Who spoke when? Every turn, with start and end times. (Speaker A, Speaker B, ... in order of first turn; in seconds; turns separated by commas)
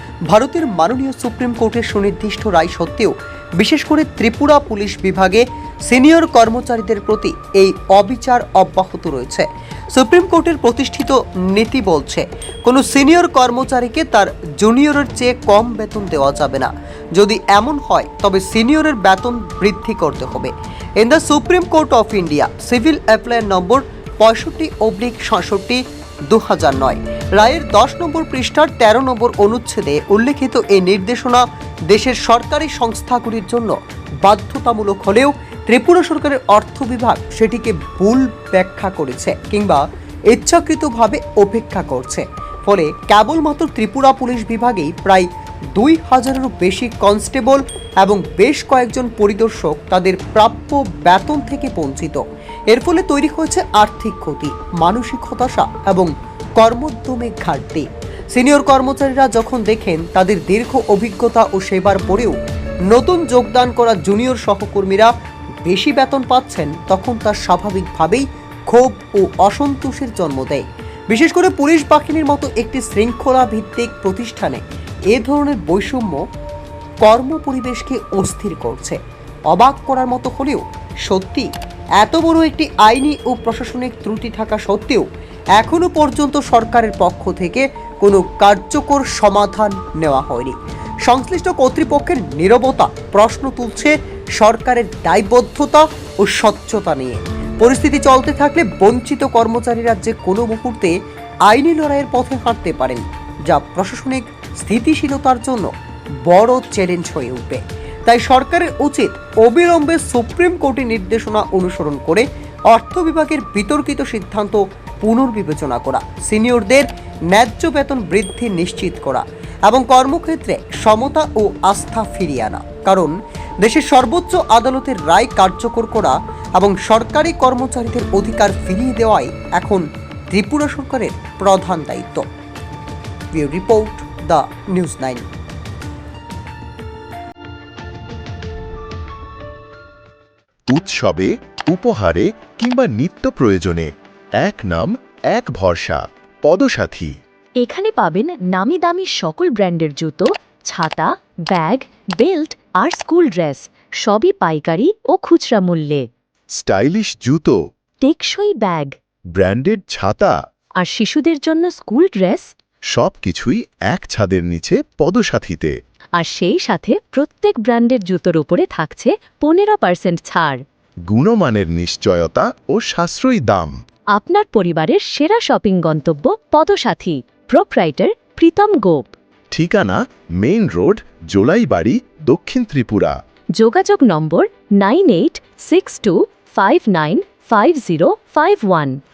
Speaker A: 0.3-62.4, Speaker A: 62.9-65.1, Speaker A: 65.7-74.6, Speaker A: 75.1-76.2, Speaker A: 77.0-79.0, Speaker A: 79.5-100.9, Speaker A: 101.5-105.7, Speaker A: 106.2-132.2, Speaker A: 133.3-135.2, Speaker B: 140.7-147.2, Speaker C: 147.6-156.0, Speaker B: 156.6-157.6, Speaker C: 158.0-158.9, Speaker B: 159.3-160.3, Speaker C: 160.8-162.5, Speaker B: 162.9-165.7, Speaker C: 166.2-170.6, Speaker B: 171.1-173.7, Speaker C: 174.1-179.1, Speaker B: 179.5-183.2, Speaker C: 183.6-189.0